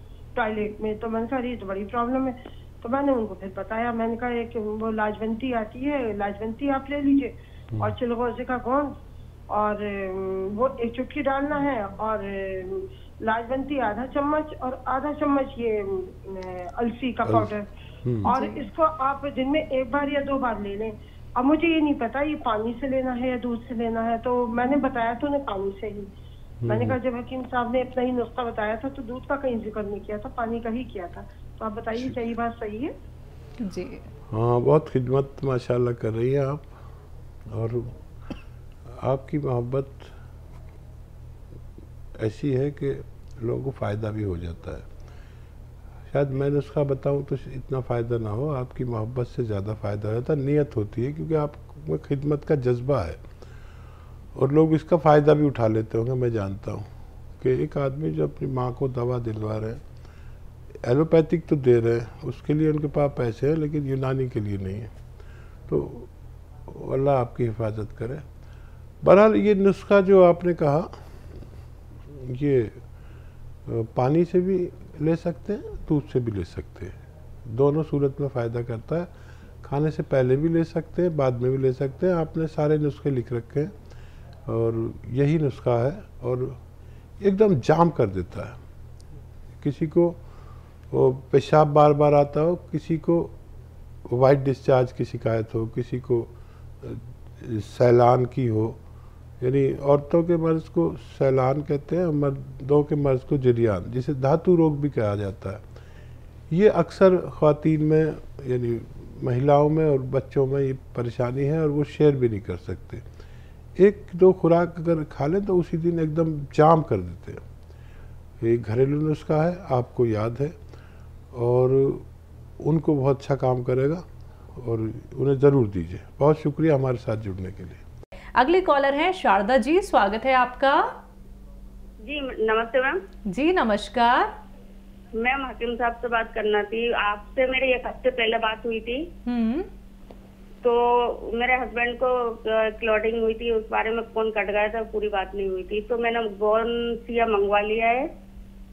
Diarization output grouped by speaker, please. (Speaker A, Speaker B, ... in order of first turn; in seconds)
Speaker A: 0.3-8.9, 9.5-17.6, 18.2-26.1, 26.6-32.9
Speaker B: 17.2-17.5, 18.0-18.3, 26.6-26.9, 34.3-36.7, 37.5-37.9, 39.0-40.1, 42.2-44.9, 46.1-53.2, 54.3-56.9, 57.4-59.8, 60.8-64.9, 65.7-66.1, 66.7-68.2, 69.0-70.9, 72.1-72.8, 73.7-79.1, 79.6-83.7, 84.5-86.6, 87.2-88.5, 89.6-90.2, 90.9-93.3, 94.1-98.8, 99.4-105.6, 106.5-113.0, 113.8-117.4, 118.4-120.5, 121.3-122.0, 122.6-124.0, 124.5-127.8
Speaker C: 18.3-18.6, 33.6-34.0, 128.3-130.9, 133.3-134.3, 139.3-139.7
Speaker D: 132.0-133.0, 135.2-139.1, 140.6-148.1